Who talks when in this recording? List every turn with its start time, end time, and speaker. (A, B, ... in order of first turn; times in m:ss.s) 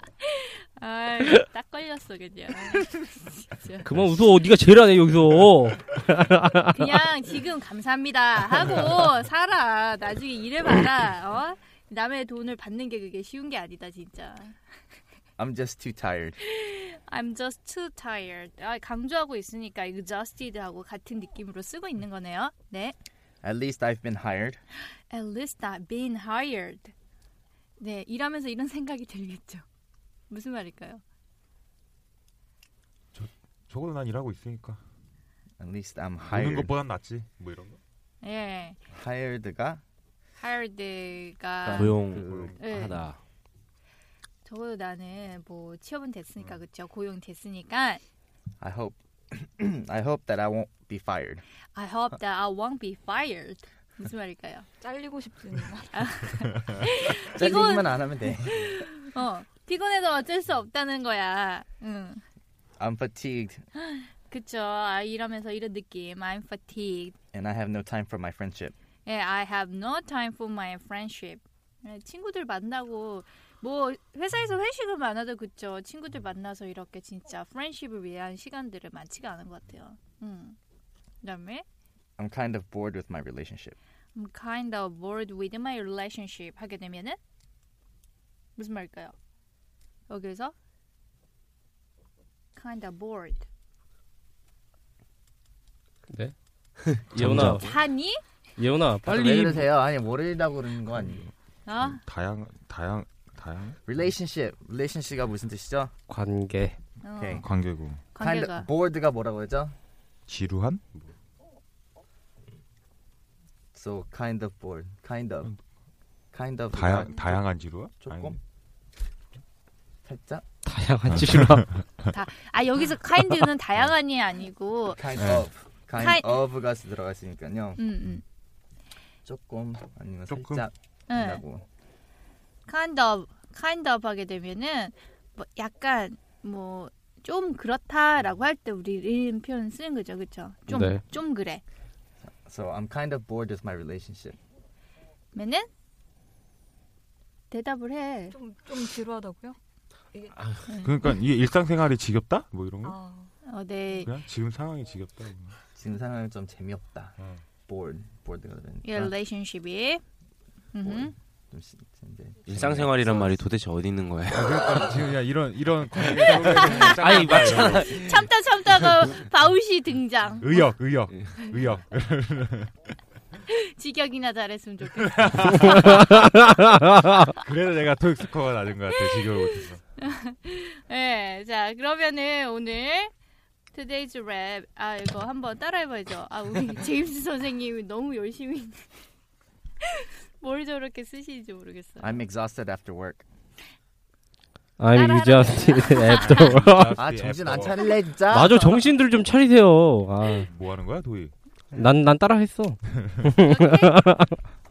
0:00.2-0:03.9 A
0:03.8-0:06.9 B
0:06.6-0:14.6 A
0:15.4-0:16.4 C
0:16.4-0:22.9 A
0:23.4-0:24.6 C
0:25.1-0:26.9 A
0:27.8-0:29.6 A
0:30.3-0:31.0 A
0:33.1-0:34.8 D
0:35.6-0:36.7 C
0:36.3-0:37.8 D
0:38.2-0:38.8 A
0:38.9-0:39.8 C
0:40.4-0:42.0 A
0:41.6-0:42.6 C
0:41.7-0:43.2 E
0:42.2-0:42.5 D
0:42.6-0:43.0 A
0:44.4-0:48.0 A
0:48.6-0:51.4 C
0:51.7-0:54.7 A
0:54.8-0:56.1 F
0:55.9-1:02.2 A
0:57.2-0:58.7 C
1:02.8-1:03.6 C
1:03.8-1:07.1 A
1:07.3-1:08.7 C
1:09.0-1:20.6 A
1:21.2-1:21.6 A
1:22.2-1:23.8 C
1:24.1-1:27.2 A
1:28.6-1:29.1 A
1:30.1-1:30.5 A
1:32.6-1:33.4 A
1:36.9-1:37.8 E
1:36.9-1:37.7 B
1:37.6-1:38.2 A
1:38.6-1:39.7 B
1:39.0-1:41.2 C
1:41.6-1:42.0 A
1:41.8-1:43.8 D
1:43.8-1:45.9 C
1:46.1-1:46.8 B
1:47.0-1:47.5 A
1:47.2-1:47.4 C
1:47.4-1:48.0 D
1:48.1-1:48.7 A
1:48.2-1:49.7 C
1:50.3-1:51.0 D
1:53.7-1:55.5 C
1:56.3-1:58.4 C
1:56.7-1:58.4 D
2:00.0-2:00.4 C
2:00.6-2:01.7 B
2:01.1-2:02.1 D
2:02.1-2:05.2 A
2:04.9-2:07.8 C
2:05.2-2:05.5 D
2:06.0-2:06.3 A
2:07.8-2:08.2 A
2:09.2-2:11.6 C
2:10.3-2:10.6 D
2:11.1-2:11.4 A
2:12.7-2:21.6 A
2:20.7-2:21.0 B
2:22.2-2:24.4 C
2:25.3-2:25.7 A
2:27.5-2:28.3 A
2:28.3-2:29.6 F
2:30.3-2:30.7 E
2:30.7-2:31.1 A
2:30.8-2:33.0 D
2:32.8-2:33.3 F
2:33.4-2:34.1 A
2:34.0-2:35.6 D
2:35.7-2:39.1 C
2:37.2-2:37.4 D
2:38.8-2:40.0 A
2:40.7-2:41.1 A
2:40.8-2:43.4 C
2:42.5-2:45.1 E
2:44.3-2:48.0 D
2:46.0-2:48.3 E
2:46.4-2:50.8 A
2:50.4-2:52.7 D
2:53.5-2:56.1 A
2:55.0-2:56.2 D
2:55.8-2:57.2 B
2:57.4-2:59.8 D
2:59.0-3:03.1 A
3:03.7-3:08.9 A
3:09.8-3:12.2 A
3:12.0-3:13.2 C
3:14.8-3:17.0 B
3:14.9-3:16.7 A
3:16.1-3:17.9 D
3:16.9-3:18.7 C
3:18.3-3:20.5 B
3:20.5-3:21.3 D
3:21.7-3:24.4 B
3:23.0-3:23.3 D
3:23.4-3:24.1 A